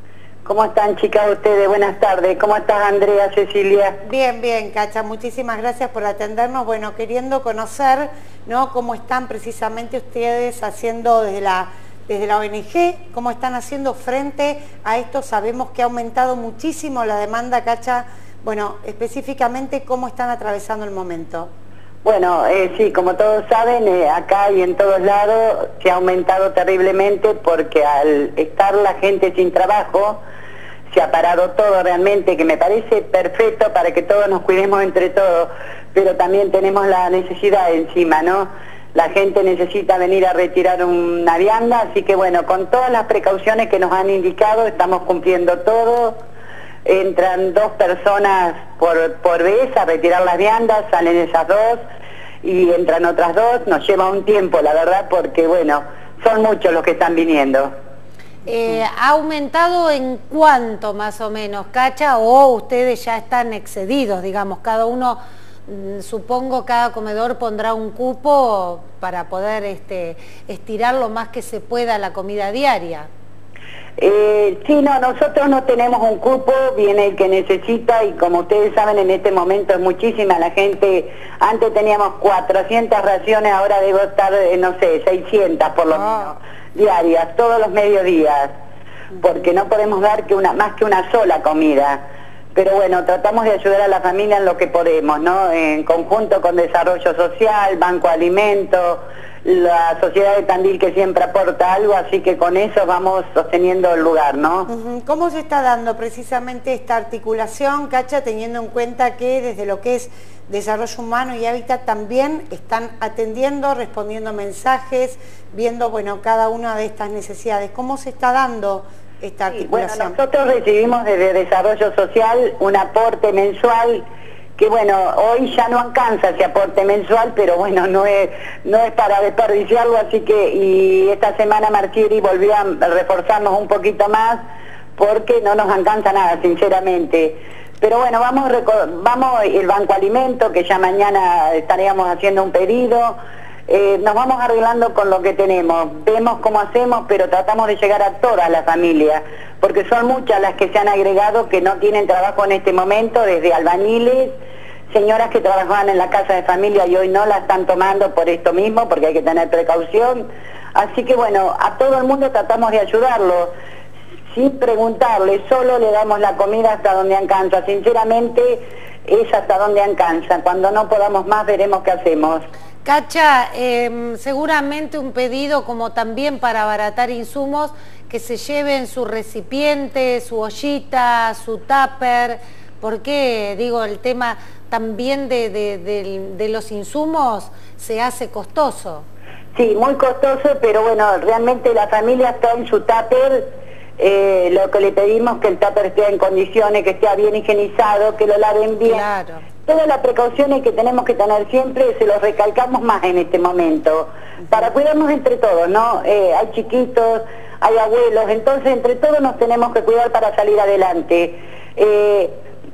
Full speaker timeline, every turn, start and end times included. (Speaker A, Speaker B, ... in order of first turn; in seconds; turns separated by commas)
Speaker A: 0.5-4.0, Speaker B: 4.0-21.5, Speaker A: 22.0-30.2, Speaker A: 30.9-46.2, Speaker A: 46.9-51.8, Speaker A: 52.4-57.7, Speaker C: 58.5-73.1, Speaker A: 74.0-88.5, Speaker A: 89.2-92.0, Speaker A: 92.5-104.7, Speaker B: 104.7-120.2, Speaker A: 119.5-124.0, Speaker A: 124.6-134.4, Speaker A: 135.0-143.2, Speaker A: 143.7-154.3, Speaker A: 154.9-163.5, Speaker A: 164.3-172.4, Speaker C: 172.8-189.1, Speaker A: 189.6-193.5, Speaker A: 194.0-199.0, Speaker C: 198.8-199.5, Speaker A: 199.7-212.3